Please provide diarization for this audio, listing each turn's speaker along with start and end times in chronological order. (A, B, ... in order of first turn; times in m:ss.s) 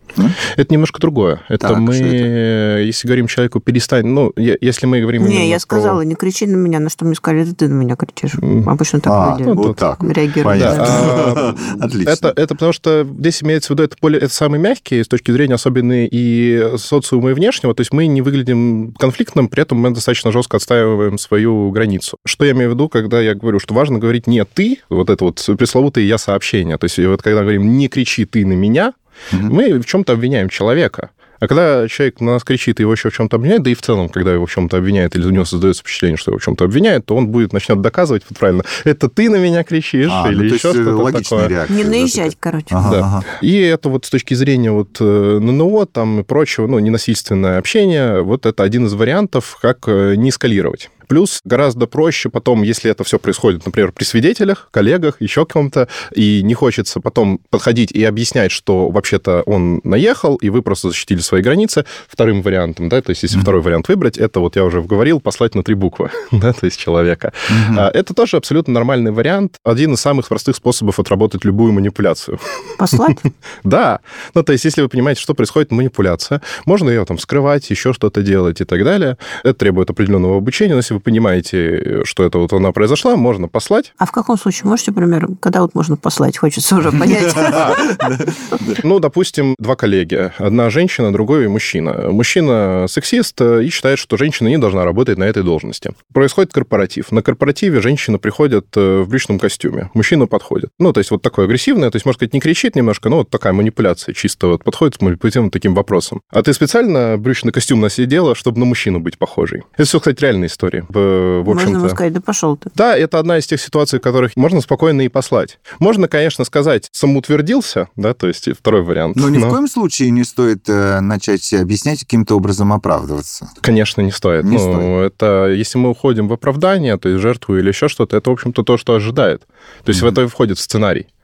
0:00.4-0:06.0 A
0:01.6-0:02.3 B
0:05.2-0:11.1 C
0:08.4-0:08.7 A
0:09.1-0:12.3 B
0:09.4-0:09.8 A
0:10.5-0:41.5 A
0:40.1-0:43.3 B
0:41.7-0:42.8 C
0:42.8-1:12.4 A
1:07.5-1:07.9 B
1:12.8-1:13.2 C
1:13.6-1:23.9 A
1:24.0-1:28.0 C
1:27.4-1:28.8 B
1:27.5-1:27.8 A
1:28.8-1:52.0 A
1:51.5-1:52.7 C
1:52.8-1:59.6 A
1:59.2-2:03.5 B
2:03.6-2:11.1 A
2:04.4-2:04.9 B